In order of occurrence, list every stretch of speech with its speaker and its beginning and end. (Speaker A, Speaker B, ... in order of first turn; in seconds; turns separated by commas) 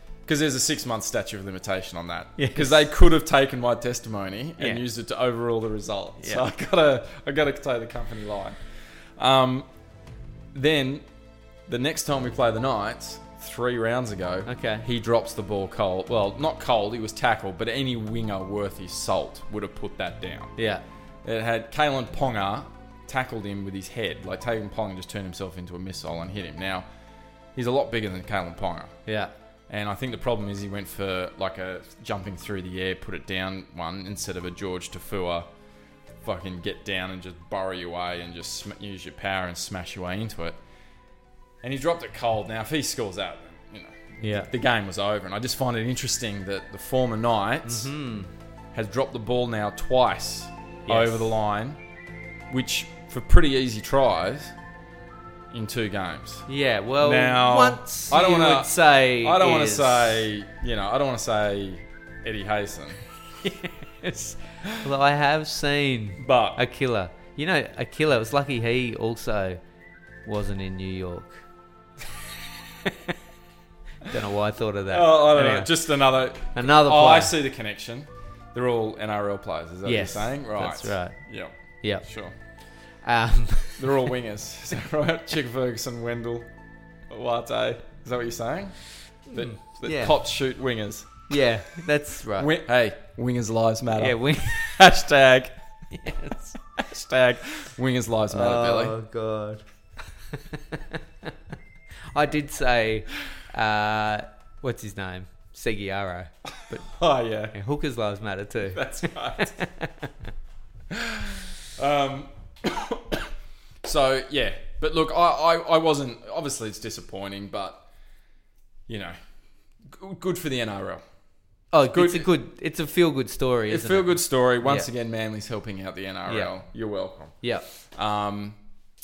Speaker A: 0.2-8.6, Speaker B: 2.4-2.8, Speaker B: 4.6-4.8, Speaker A: 9.2-9.7, Speaker A: 10.5-11.1, Speaker A: 11.7-20.5, Speaker B: 14.5-14.8, Speaker B: 20.6-20.8, Speaker A: 21.2-26.9, Speaker A: 27.6-29.0, Speaker B: 29.1-29.3, Speaker A: 29.7-35.5, Speaker A: 36.2-40.6, Speaker A: 41.6-47.9, Speaker B: 44.2-44.5, Speaker B: 47.6-48.3, Speaker A: 48.7-51.8, Speaker B: 50.9-51.3, Speaker A: 52.5-54.5, Speaker A: 55.5-56.5, Speaker B: 56.5-60.3, Speaker A: 57.0-63.0, Speaker B: 63.4-69.6, Speaker A: 66.2-66.6, Speaker B: 70.2-71.4, Speaker B: 72.8-73.1, Speaker B: 74.0-75.7, Speaker A: 74.9-82.3, Speaker B: 76.5-77.3, Speaker B: 79.8-81.2, Speaker B: 81.8-82.1, Speaker B: 83.0-84.0, Speaker A: 83.8-86.5, Speaker A: 87.1-91.2, Speaker B: 89.3-90.2, Speaker B: 91.3-92.5, Speaker A: 92.4-95.5, Speaker B: 94.0-94.8, Speaker B: 95.9-96.6, Speaker A: 96.8-99.0, Speaker B: 98.3-99.6, Speaker B: 100.3-101.3, Speaker B: 102.1-106.9, Speaker A: 106.7-107.6, Speaker B: 107.5-110.1, Speaker A: 108.7-109.6, Speaker A: 110.9-113.3, Speaker A: 113.8-117.8, Speaker A: 118.9-119.2, Speaker A: 119.8-121.0, Speaker B: 121.7-124.9, Speaker A: 121.9-122.3, Speaker A: 123.7-127.4, Speaker A: 127.9-128.6